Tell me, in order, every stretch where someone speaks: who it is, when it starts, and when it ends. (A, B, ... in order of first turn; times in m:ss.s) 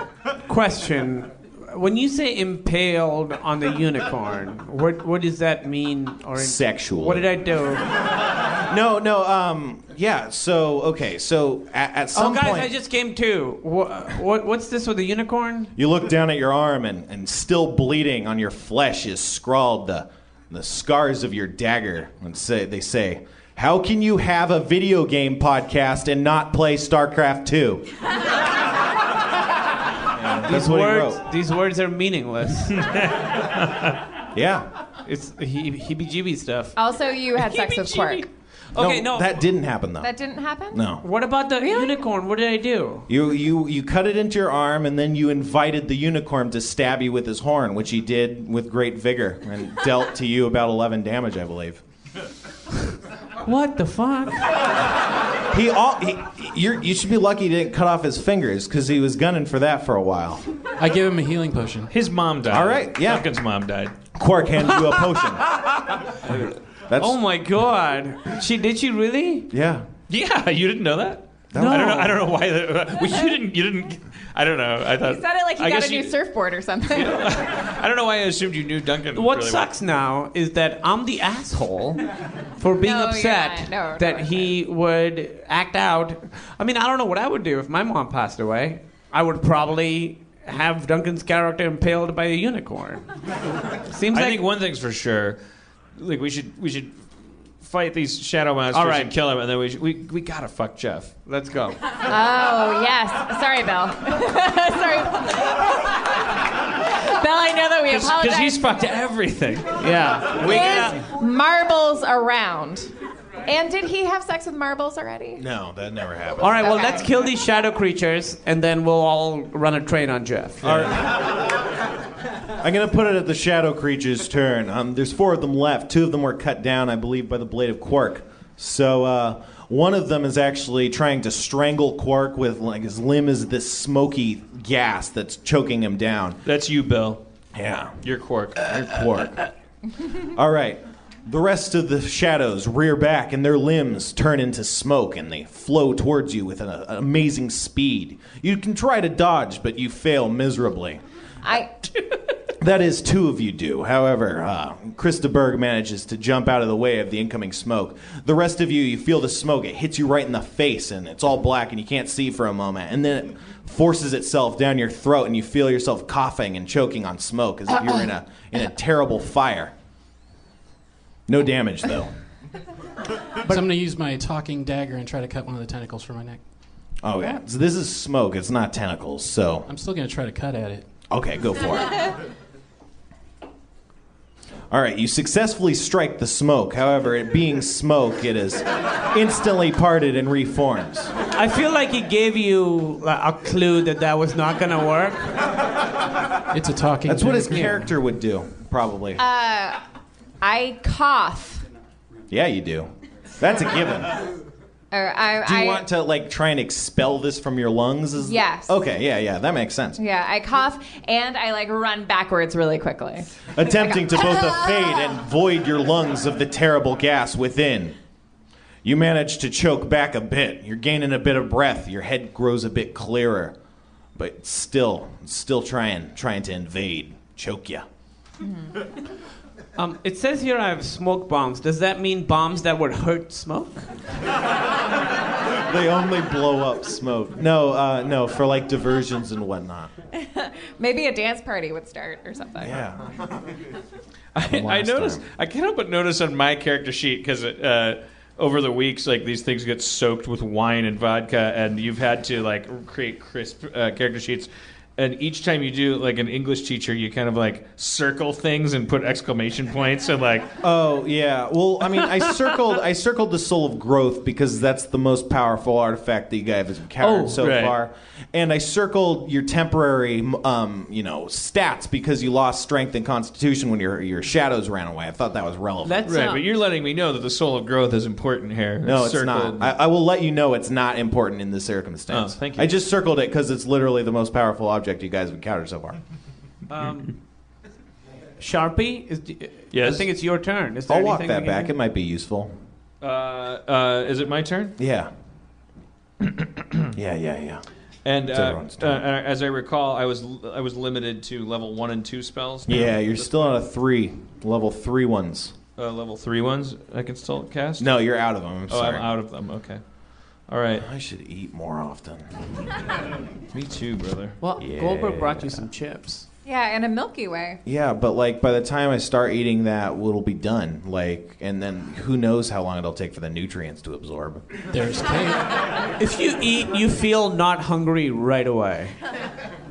0:00.4-0:07.9 A
0:06.4-0:07.3 B
0:08.6-0:12.7 B
0:12.1-0:15.7 A
0:15.8-0:27.9 B
0:30.2-0:31.2 B
0:30.4-0:32.9 A
0:32.8-0:34.0 C
0:34.3-0:34.7 B
0:35.0-0:36.8 A
0:36.8-0:38.3 D
0:37.4-0:39.3 A
0:38.8-0:40.1 B
0:40.0-0:40.8 D
0:40.7-0:41.0 B
0:41.0-0:43.1 A
0:41.6-0:41.9 D
0:43.1-0:51.8 B
0:53.4-0:54.6 A
0:55.5-1:00.4 B
1:00.8-1:01.9 E
1:01.9-1:04.0 C
1:02.5-1:03.3 B
1:04.1-1:05.4 B
1:06.3-1:07.2 B
1:07.0-1:09.5 A
1:09.5-1:09.9 B
1:10.1-1:16.1 C
1:11.5-1:12.2 B
1:11.5-1:12.2 A
1:15.0-1:17.3 D
1:16.9-1:19.7 C
1:19.1-1:22.0 A
1:22.6-1:33.1 A
1:22.8-1:24.6 D
1:33.9-1:34.4 A
1:34.1-1:35.4 C
1:36.0-1:36.9 C
1:37.6-1:41.1 C
1:38.7-1:39.1 A
1:41.3-1:41.8 A
1:42.1-1:46.2 D
1:47.0-1:48.6 D
1:47.9-1:49.8 C
1:49.8-1:51.0 A
1:50.4-1:52.9 D
1:53.4-1:55.4 D
1:55.4-1:56.7 B
1:56.4-2:01.0 A
1:56.5-1:57.0 D
2:00.6-2:01.3 B
2:02.6-2:16.4 B
2:16.4-2:17.2 C
2:17.6-2:18.0 B
2:18.0-2:18.8 C
2:18.6-2:19.4 B
2:20.2-2:31.0 B
2:31.4-2:31.7 D
2:32.6-2:49.7 B
2:51.3-2:52.1 B
2:53.4-2:56.4 E
2:57.0-2:59.7 B
2:59.7-3:00.9 E
3:01.1-3:02.1 B
3:04.7-3:11.1 B
3:11.3-3:15.5 A
3:16.5-3:18.0 E
3:17.0-3:19.2 B
3:19.2-3:19.8 D
3:20.4-3:21.6 D
3:22.3-3:24.3 B
3:24.9-3:25.9 D
3:25.4-3:30.0 B
3:28.2-3:28.8 D
3:30.0-3:35.0 D
3:33.5-3:38.0 B
3:38.8-3:43.6 B
3:44.2-3:47.9 B
3:49.8-3:53.9 A
3:55.7-3:59.9 B
4:00.1-4:02.7 D
4:02.6-4:03.1 B
4:04.4-4:20.5 C
4:04.4-4:05.2 B
4:20.6-4:36.1 B
4:27.0-4:27.4 A
4:27.4-4:27.8 C
4:35.8-4:36.4 A
4:36.0-4:39.7 C
4:38.8-4:46.0 B
4:42.1-4:42.7 C
4:46.7-4:47.1 A
4:48.4-4:51.7 A
4:49.7-4:50.0 C
4:50.9-4:52.5 B
4:53.0-4:54.8 C
4:54.8-4:55.1 B
4:57.0-4:57.6 B
4:58.0-5:03.4 C
4:58.3-4:59.0 B
5:02.7-5:05.6 B
5:05.8-5:07.9 C
5:07.8-5:09.1 B
5:08.7-5:09.8 C
5:10.5-5:10.9 C
5:10.8-5:12.3 B
5:13.5-5:14.4 C
5:14.4-5:16.3 A
5:14.6-5:15.6 B
5:16.4-5:17.6 D
5:17.6-5:24.4 B
5:24.7-5:25.5 E
5:26.0-5:29.0 A